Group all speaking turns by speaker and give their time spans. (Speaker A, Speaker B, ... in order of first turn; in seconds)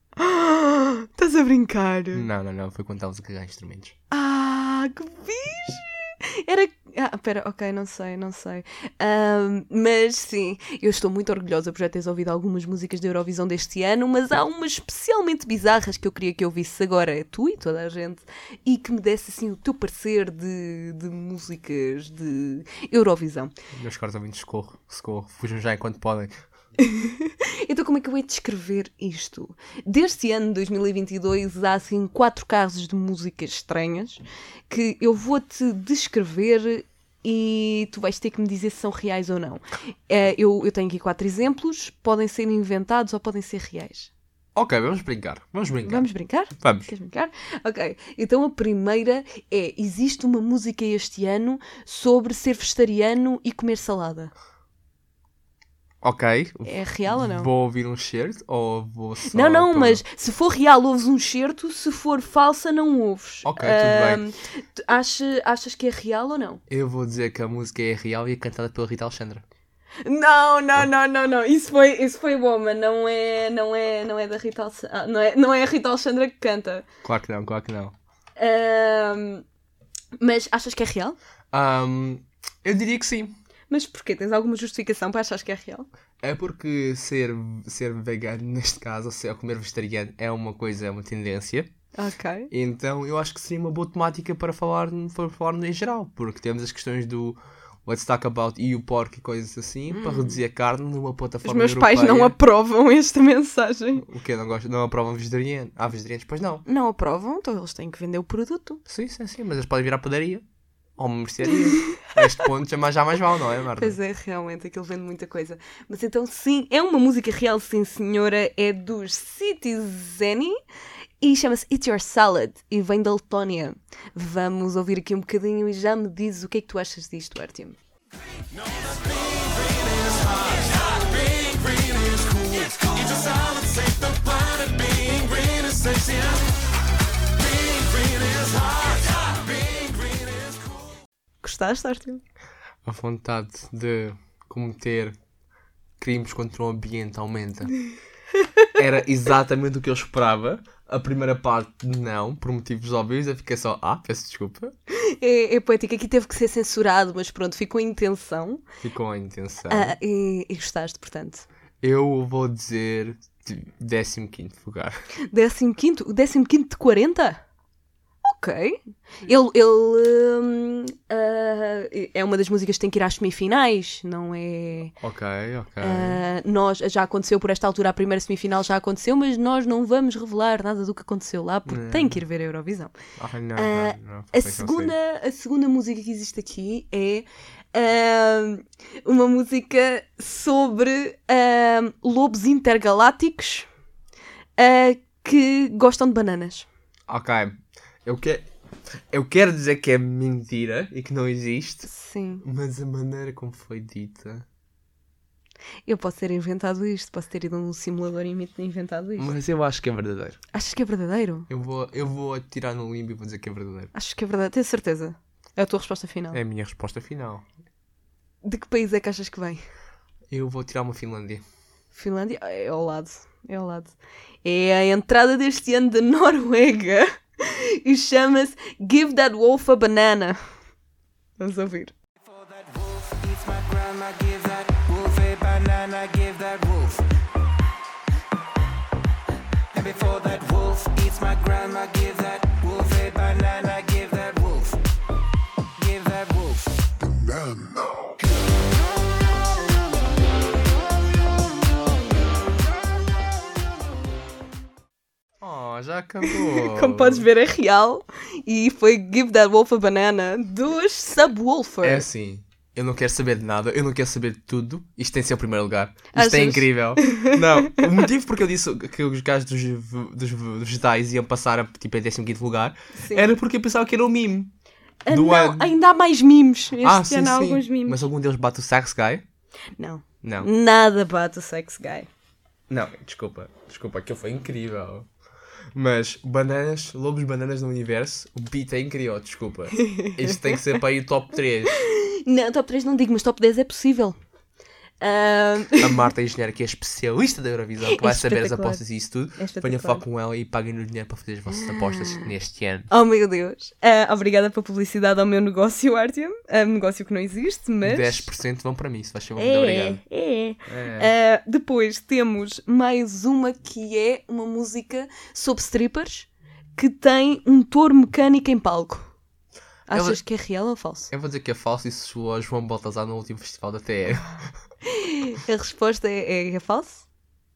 Speaker A: 0.2-2.3, 4.1-23.5, 26.8-44.1, 45.9-54.3, 56.6-57.5, 59.3-66.6, 70.0-76.9, 78.4-79.5, 80.2-81.2, 83.7-85.9, 92.0-92.5, 99.9-100.4, 101.4-104.0, 106.7-108.8, 113.8-120.6, 121.2-127.8, 141.4-142.2, 154.9-158.6, 159.7-161.5, 165.3-167.4, 168.2-174.9, 175.8-182.9, 183.6-193.7, 194.6-196.7, 201.9-202.4, 205.9-209.3, 210.5-211.5, 213.9-216.4, 218.4-219.6, 221.9-230.5, 231.4-231.9, 256.3-262.1, 266.1-267.8, 273.0-273.3, 275.1-278.0, 279.8-282.1, 289.8-290.1, 291.8-294.2, 295.0-296.0, 297.9-298.8, 299.4-300.0, 302.9-308.3, 309.4-319.1, 319.9-321.1, 324.9-327.1
Speaker B: 2.1-4.0, 23.7-26.3, 44.5-46.9, 56.0-60.0, 63.5-64.2, 66.7-69.4, 77.0-77.9, 81.5-83.3, 86.2-91.7, 92.5-102.3, 104.0-106.7, 108.9-110.4, 111.0-114.0, 142.8-145.2, 146.0-147.8, 148.8-154.7, 158.8-160.0, 161.8-165.0, 175.0-176.2, 181.7-182.2, 183.2-184.9, 197.1-198.5, 199.1-201.9, 202.4-204.5, 209.2-210.4, 211.5-213.9, 216.3-217.4, 220.3-221.4, 255.4-257.3, 261.8-274.5, 275.1-275.7, 276.8-279.2, 280.2-280.5, 282.7-285.1, 285.7-291.8, 295.8-302.9, 307.9-310.0, 310.7-311.1, 319.9-320.2, 321.1-324.5
Speaker C: 232.2-237.0, 239.8-244.8, 245.8-246.7